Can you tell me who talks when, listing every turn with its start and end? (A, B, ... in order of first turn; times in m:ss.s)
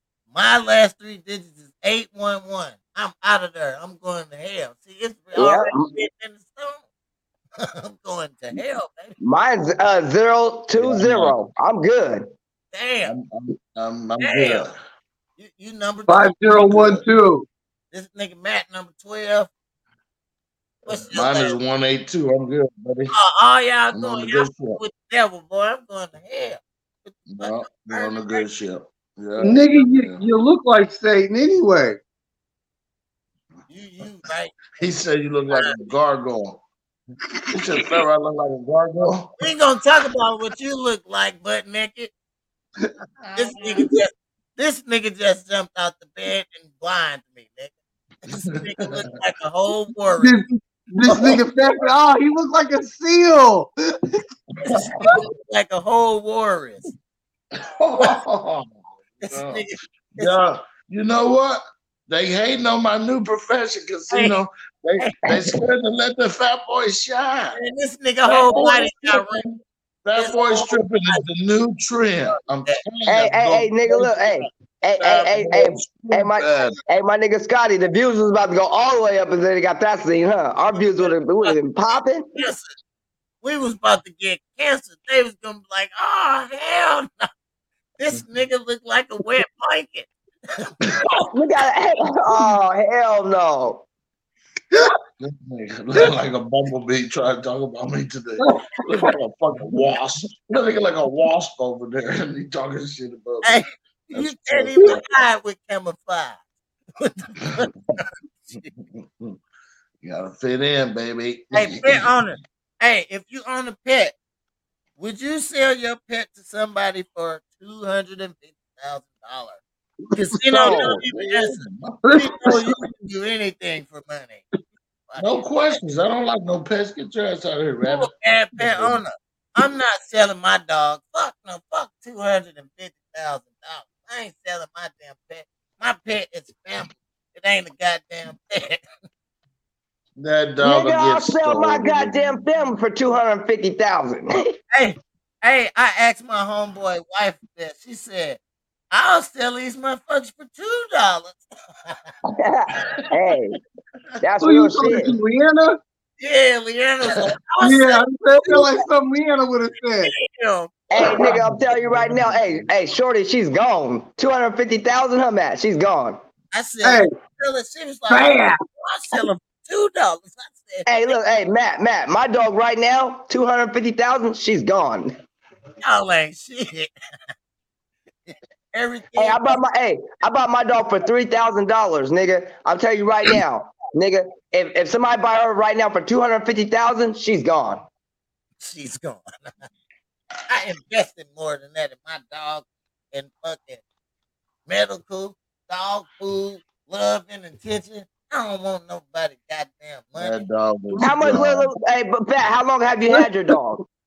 0:00.3-0:06.8 A
0:05.3-0:05.9 B
0:07.6-0:09.1 A
0:09.2-0:12.2 B
0:10.7-0:11.4 C
0:12.7-0:13.1 A
0:13.0-0:14.8 C
0:14.2-0:14.7 A
0:15.4-0:16.9 A
0:16.1-0:17.4 D
0:16.6-0:17.0 C
0:17.9-0:19.5 A
0:20.8-0:21.6 A
0:20.9-0:23.1 C
0:23.1-0:28.4 A
0:23.9-0:24.8 C
0:27.3-0:30.2 C
0:29.4-0:32.0 D
0:33.7-0:34.7 A
0:34.8-0:36.6 C
0:35.5-0:35.9 A
0:37.5-0:39.3 C
0:39.4-0:42.1 A
0:43.2-0:43.8 C
0:43.3-0:47.7 A
0:48.2-0:50.4 A
0:50.2-0:53.7 D
0:51.1-0:51.4 A
0:54.6-0:56.9 A
0:54.7-0:55.1 C
0:57.6-0:59.6 C
0:59.2-1:00.3 A
1:00.2-1:07.6 C
1:04.1-1:04.4 A
1:07.5-1:09.4 A
1:08.3-1:16.8 C
1:10.2-1:11.2 A
1:13.0-1:22.3 B
1:20.8-1:22.7 A
1:23.4-1:27.3 A
1:28.0-1:30.7 A
1:31.3-1:33.8 B
1:35.2-1:43.6 C
1:38.4-1:39.1 D
1:43.4-1:46.4 A
1:44.1-1:45.0 C
1:47.0-1:48.7 A
1:48.8-1:49.4 C
1:50.0-1:52.1 C
1:51.5-1:54.1 A
1:55.0-1:59.6 A
2:00.1-2:04.4 A
2:00.5-2:01.0 B
2:00.6-2:02.0 C
2:02.0-2:02.8 D
2:05.1-2:05.8 A
2:05.2-2:09.0 C
2:07.8-2:18.8 A
2:20.2-2:22.4 C
2:20.6-2:24.3 B
2:24.7-2:28.4 A
2:28.9-2:32.0 A
2:32.4-2:33.6 B
2:34.2-2:35.1 B
2:34.4-2:35.8 D
2:36.2-2:38.0 A
2:37.6-2:40.1 D
2:40.0-2:40.8 A
2:40.9-2:46.2 B
2:41.1-2:42.7 C
2:46.5-2:51.1 A
2:46.8-2:47.1 D
2:48.1-2:48.6 D
2:50.8-2:55.1 B
2:55.8-2:56.9 A
2:58.3-2:59.6 A
2:59.2-3:07.8 B
3:08.6-3:09.5 A
3:10.5-3:13.8 A
3:14.6-3:20.4 A
3:20.2-3:21.6 C
3:21.0-3:23.8 B